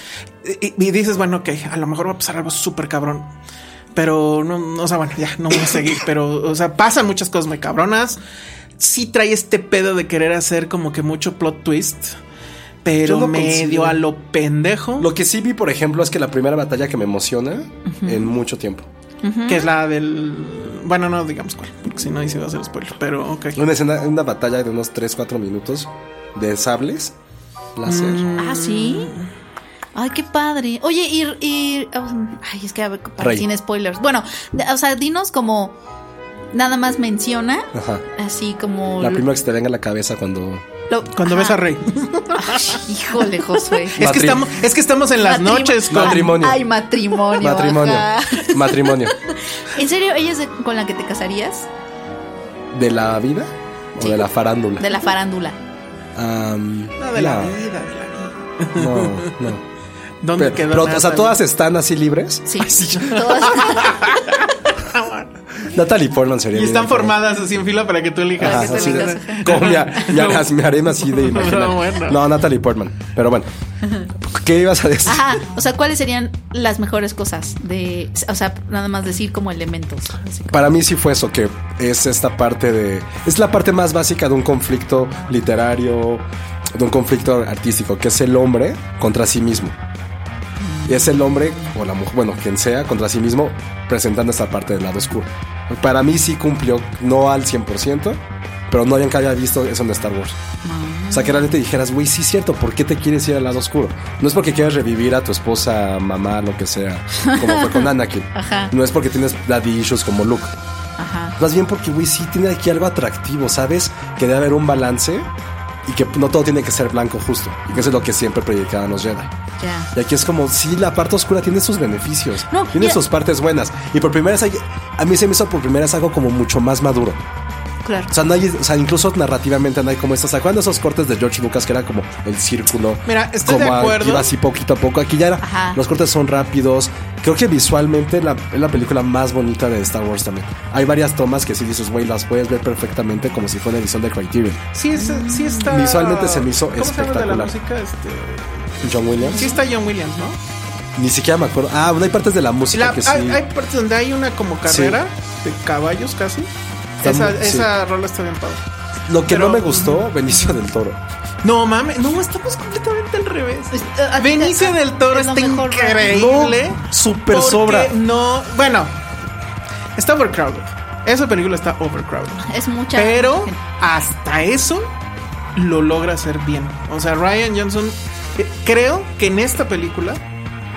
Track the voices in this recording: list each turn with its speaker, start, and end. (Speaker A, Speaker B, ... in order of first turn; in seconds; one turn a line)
Speaker A: 0.4-3.3
Speaker A: 3.9-8.2
Speaker A: 8.8-12.2
Speaker A: 12.8-15.1
Speaker B: 13.0-14.0
Speaker B: 15.0-18.9
Speaker C: 17.9-18.3
Speaker C: 19.2-19.7
Speaker A: 19.5-23.6
Speaker B: 23.6-27.1
Speaker B: 27.8-28.2
Speaker A: 27.9-29.3
Speaker C: 28.4-29.1
Speaker C: 29.9-35.8
Speaker B: 33.2-33.5
Speaker C: 36.5-39.2
Speaker B: 37.7-38.0
Speaker B: 39.0-40.6
Speaker C: 40.9-41.6
Speaker A: 41.1-42.8
Speaker C: 42.3-44.0
Speaker A: 43.7-46.3
Speaker B: 44.0-44.5
Speaker C: 45.2-51.7
Speaker B: 45.9-46.6
Speaker B: 47.4-49.1
Speaker B: 52.7-54.9
Speaker C: 54.0-55.6
Speaker B: 56.1-57.5
Speaker A: 57.0-59.3
Speaker B: 58.7-59.6
Speaker A: 60.2-61.4
Speaker B: 60.4-63.4
Speaker C: 62.5-64.1
Speaker A: 63.2-65.3
Speaker B: 65.6-67.1
Speaker A: 66.5-72.2
Speaker B: 68.4-73.5
Speaker C: 68.4-69.7
Speaker B: 74.2-75.4
Speaker C: 75.0-80.7
Speaker B: 80.5-89.8
Speaker C: 90.6-91.7
Speaker B: 90.8-100.4
Speaker C: 100.6-101.5
Speaker B: 101.1-110.5
Speaker C: 107.2-108.7
Speaker C: 111.0-111.3
Speaker B: 111.4-115.3
Speaker B: 115.8-119.3
Speaker C: 119.6-119.9
Speaker B: 119.9-127.2
Speaker C: 122.5-123.0
Speaker C: 127.8-128.1
Speaker B: 128.1-144.6
Speaker A: 133.1-134.3
Speaker C: 135.4-135.8
Speaker A: 144.7-150.4
Speaker C: 144.9-145.6
Speaker B: 145.7-147.5
Speaker B: 148.8-149.5
Speaker C: 149.3-149.6
Speaker B: 150.9-153.4
Speaker A: 152.7-156.5
Speaker B: 154.7-155.0
Speaker A: 157.0-158.6
Speaker B: 157.0-157.7
Speaker B: 159.1-161.0
Speaker A: 159.2-160.1
Speaker A: 161.4-168.9
Speaker C: 163.7-166.3
Speaker B: 166.1-167.9
Speaker A: 169.9-174.9
Speaker C: 172.4-173.6
Speaker A: 175.6-180.2